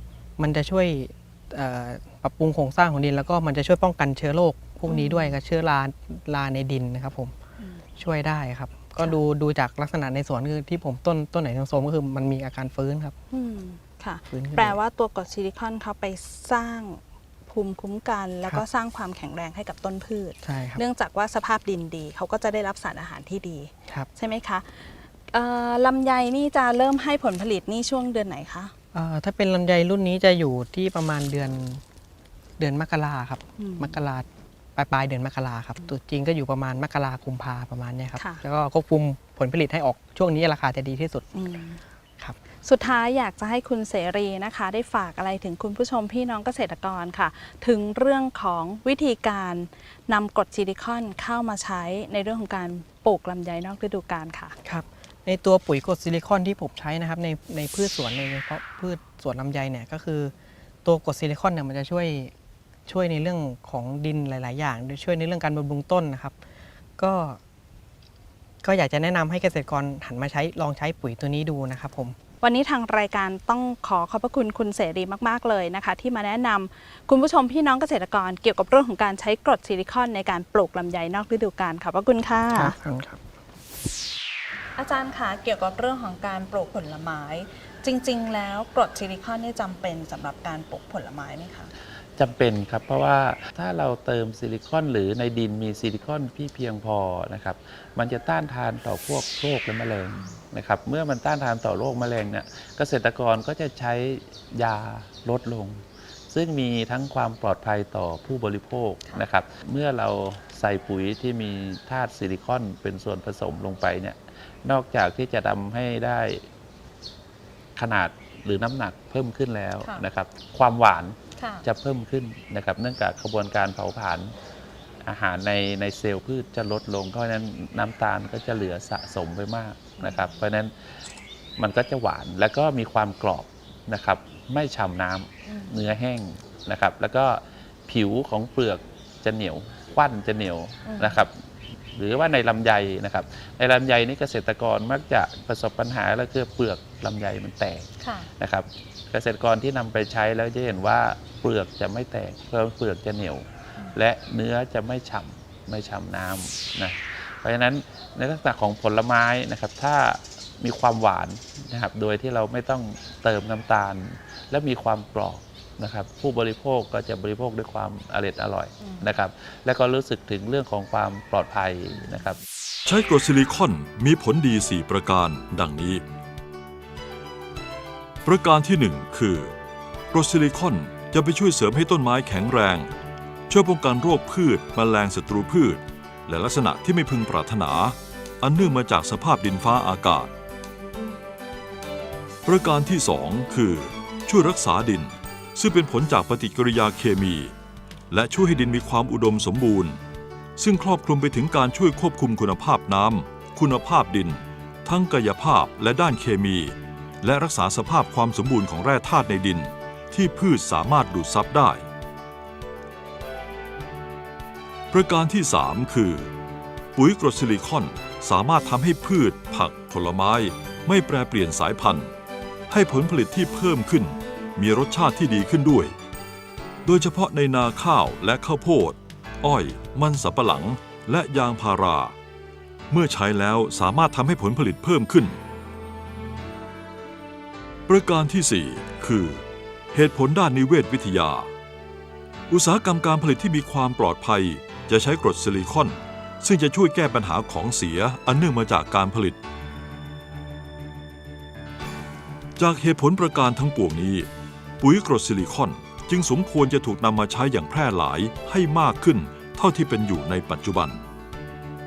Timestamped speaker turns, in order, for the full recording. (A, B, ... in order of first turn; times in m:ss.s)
0:00.4-0:07.3 A
0:04.9-0:05.4 B
0:07.6-0:07.8 B
0:08.0-0:13.1 A
0:13.3-0:28.7 B
0:14.3-0:14.8 A
0:20.4-0:20.8 A
0:28.9-0:31.8 A
0:32.6-0:41.2 A
0:33.6-0:34.0 B
0:38.2-0:38.4 B
0:41.3-0:41.8 B
0:42.6-0:54.6 B
0:54.6-1:00.3 A
1:00.8-1:02.3 A
1:02.9-1:06.4 A
1:07.0-1:07.4 A
1:08.6-1:12.2 A
1:12.4-1:22.7 B
1:22.5-1:23.2 A
1:24.8-1:31.7 B
1:32.2-1:56.4 C
1:40.1-1:40.4 B
1:57.8-2:04.3 C
2:01.4-2:01.6 B
2:05.0-2:10.8 C
2:10.0-2:10.4 B
2:11.6-2:52.4 C
2:15.5-2:15.8 B
2:20.8-2:21.2 B
2:28.0-2:28.3 B
2:52.8-2:56.0 D
2:58.2-2:59.5 D
3:00.1-3:02.9 D
3:03.5-3:10.3 D
3:12.4-3:17.5 D
3:18.1-3:20.0 D
3:20.6-3:31.8 D
3:34.9-3:36.3 D
3:36.9-3:42.1 D
3:42.7-3:45.9 D
3:46.8-3:52.1 D
3:52.9-3:55.4 D
3:57.9-4:01.5 D
4:02.5-4:09.4 D
4:12.6-4:14.3 D
4:14.8-4:21.0 D